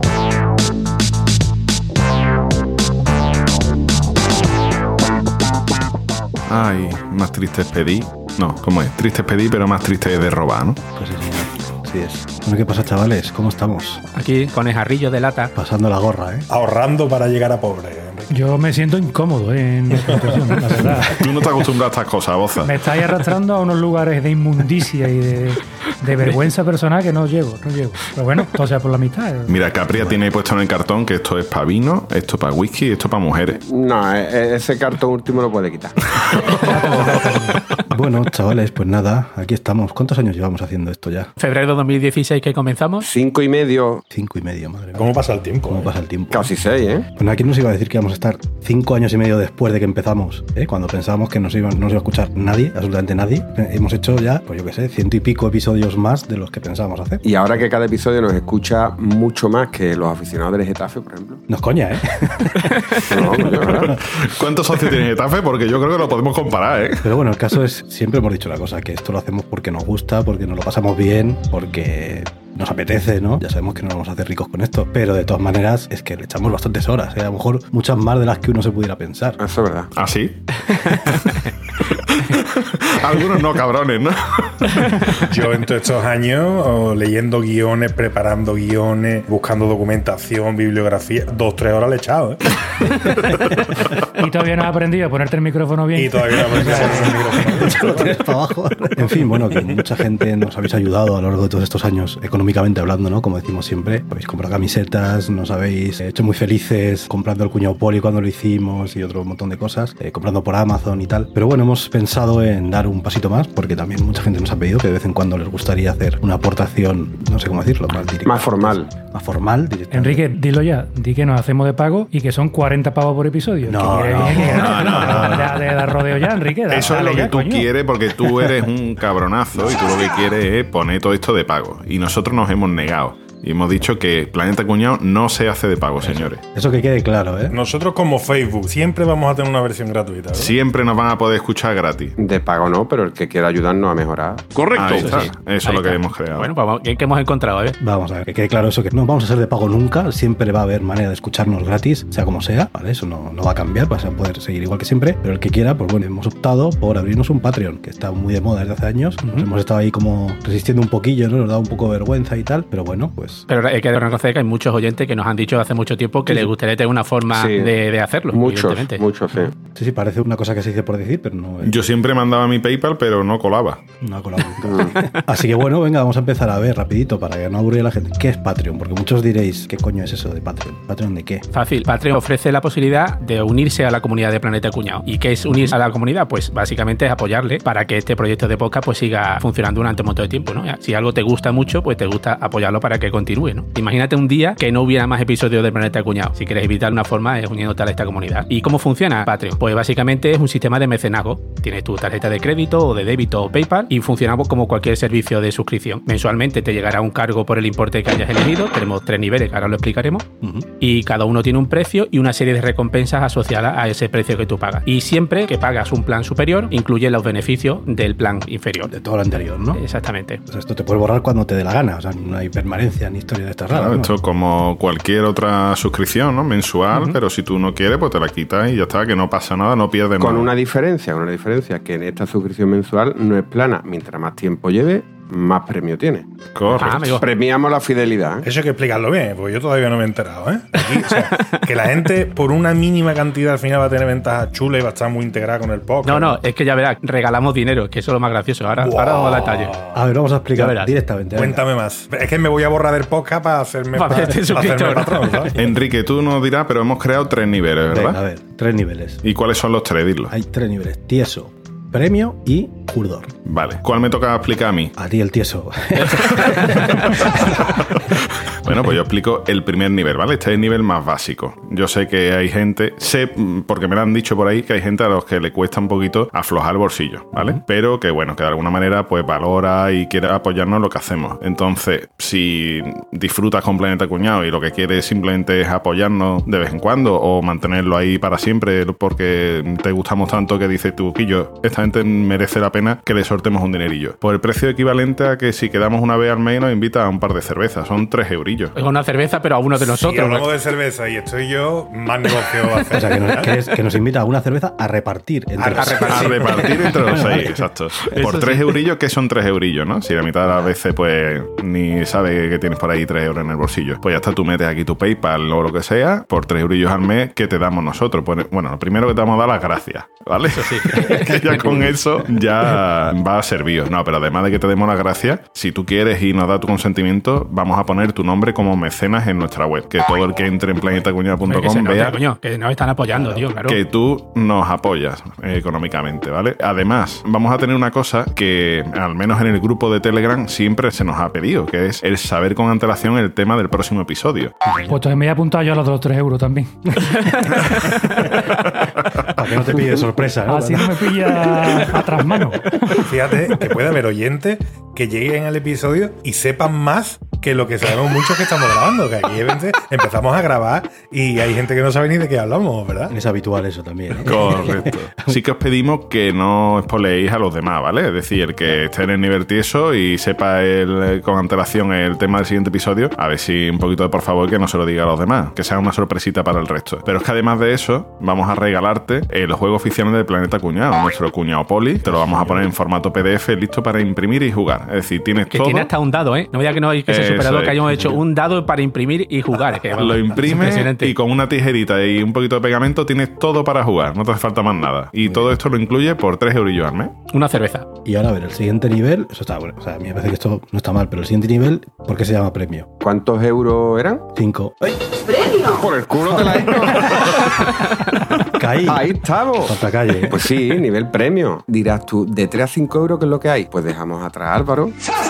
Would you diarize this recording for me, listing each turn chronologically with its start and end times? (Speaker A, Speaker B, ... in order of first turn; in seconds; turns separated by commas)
Speaker A: 6.5-10.8, Speaker B: 10.9-14.0, Speaker C: 14.2-15.5, Speaker B: 15.6-16.5, Speaker D: 16.5-18.6, Speaker E: 18.3-21.2, Speaker D: 20.0-20.8, Speaker B: 20.9-21.3, Speaker A: 21.1-22.8, Speaker E: 22.6-30.0, Speaker A: 29.5-33.6, Speaker F: 33.5-36.0, Speaker A: 36.4-37.3, Speaker E: 36.5-37.6, Speaker B: 37.9-41.3, Speaker C: 41.4-43.1, Speaker F: 43.0-44.0, Speaker B: 44.1-45.1, Speaker D: 44.9-45.9, Speaker B: 45.6-46.5, Speaker F: 46.3-47.1, Speaker B: 47.1-57.2, Speaker F: 57.2-61.4, Speaker B: 61.5-62.9, Speaker F: 63.0-64.0, Speaker A: 63.6-67.1, Speaker B: 67.0-79.4, Speaker F: 79.4-79.9, Speaker A: 80.0-81.4, Speaker A: 82.1-85.0, Speaker D: 85.1-92.5, Speaker E: 94.2-97.9, Speaker D: 95.9-98.3, Speaker B: 96.6-120.2, Speaker D: 99.0-99.6, Speaker F: 118.2-118.9, Speaker E: 119.9-127.7, Speaker B: 123.7-125.6, Speaker A: 124.5-125.7, Speaker A: 126.7-136.4, Speaker B: 136.0-137.6, Speaker D: 137.5-140.6, Speaker A: 140.3-142.2, Speaker F: 142.2-145.3, Speaker A: 144.6-146.5, Speaker C: 144.9-147.8, Speaker B: 147.8-163.5, Speaker C: 159.2-159.5, Speaker C: 163.5-169.0, Speaker F: 167.3-167.8, Speaker F: 168.3-169.6, Speaker B: 169.7-171.8, Speaker A: 171.6-173.8, Speaker B: 174.0-181.5, Speaker F: 174.6-175.0, Speaker C: 181.5-210.2, Speaker B: 210.4-210.7, Speaker C: 210.8-218.9, Speaker B: 218.8-219.8, Speaker C: 219.7-220.4, Speaker B: 220.5-224.1, Speaker A: 223.7-230.5, Speaker C: 226.9-227.2, Speaker F: 230.2-238.5, Speaker A: 236.6-237.2, Speaker C: 236.7-237.3, Speaker D: 238.4-246.4, Speaker C: 246.0-249.8, Speaker D: 248.8-250.0, Speaker B: 249.9-251.6, Speaker C: 250.6-250.9, Speaker D: 251.3-255.7, Speaker C: 253.9-255.5, Speaker A: 255.6-258.2, Speaker B: 257.9-259.2, Speaker A: 259.2-260.3, Speaker B: 260.3-263.4, Speaker A: 263.4-264.9, Speaker B: 265.0-267.8, Speaker A: 266.1-298.7, Speaker C: 298.8-300.5, Speaker D: 299.8-303.6, Speaker B: 302.9-307.7, Speaker D: 305.6-306.7, Speaker C: 305.8-306.8, Speaker A: 306.1-332.2, Speaker C: 308.1-308.8, Speaker C: 320.5-321.6, Speaker C: 331.4-333.8, Speaker A: 333.6-344.5, Speaker B: 344.7-345.0, Speaker E: 344.9-347.3, Speaker C: 347.3-348.5, Speaker A: 348.8-349.3, Speaker B: 349.3-351.7, Speaker E: 350.4-353.6, Speaker D: 353.1-363.1, Speaker B: 363.1-365.4, Speaker A: 364.2-385.9, Speaker B: 382.2-382.5, Speaker C: 385.5-391.1, Speaker A: 387.1-387.9, Speaker B: 387.9-388.2, Speaker A: 390.0-397.1, Speaker C: 397.3-397.9, Speaker B: 398.1-402.9, Speaker F: 403.0-404.2, Speaker B: 404.4-405.1, Speaker F: 405.4-407.7, Speaker B: 406.3-406.7, Speaker B: 408.4-410.4, Speaker F: 408.8-409.8, Speaker F: 410.3-415.0